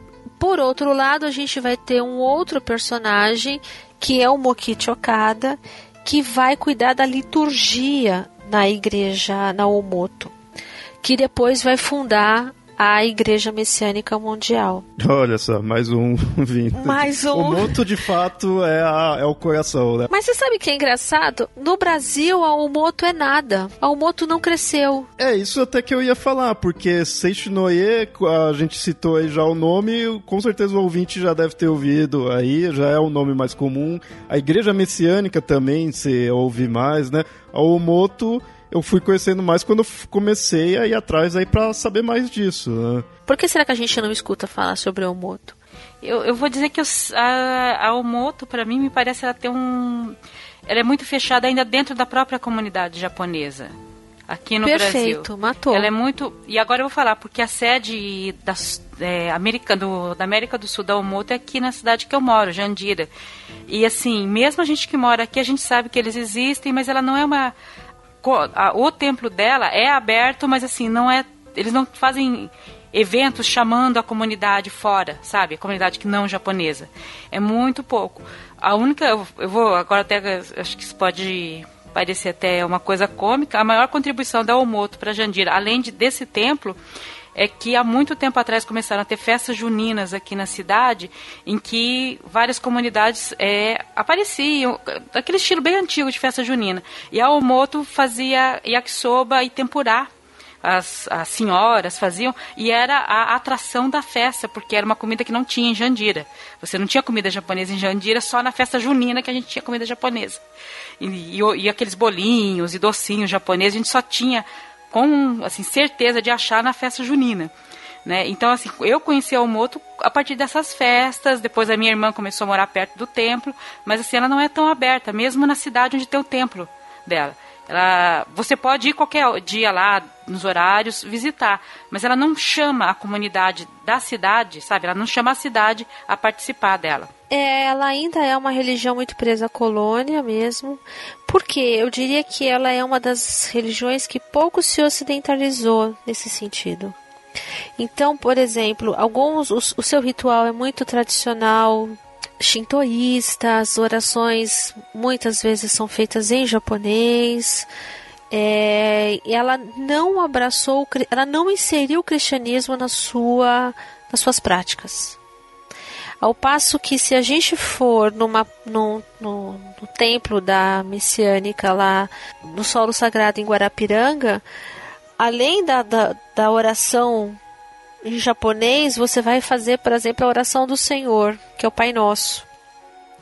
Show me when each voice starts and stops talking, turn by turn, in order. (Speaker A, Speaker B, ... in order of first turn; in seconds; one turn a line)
Speaker A: 0.4-10.3
Speaker A: 11.0-14.8
Speaker B: 15.0-20.1
Speaker A: 16.7-17.8
Speaker A: 20.1-25.1
Speaker B: 25.2-43.0
Speaker A: 43.3-45.6
Speaker C: 46.0-53.7
Speaker C: 54.3-63.1
Speaker A: 54.6-55.9
Speaker C: 63.7-67.5
Speaker C: 68.2-86.8
Speaker C: 87.3-100.1
Speaker C: 100.6-110.4
Speaker C: 111.0-117.5
Speaker C: 118.0-137.1
Speaker A: 137.3-146.9
Speaker A: 147.8-157.7
Speaker A: 158.3-165.2
Speaker A: 166.2-174.4
Speaker A: 175.2-177.4
Speaker A: 178.0-182.4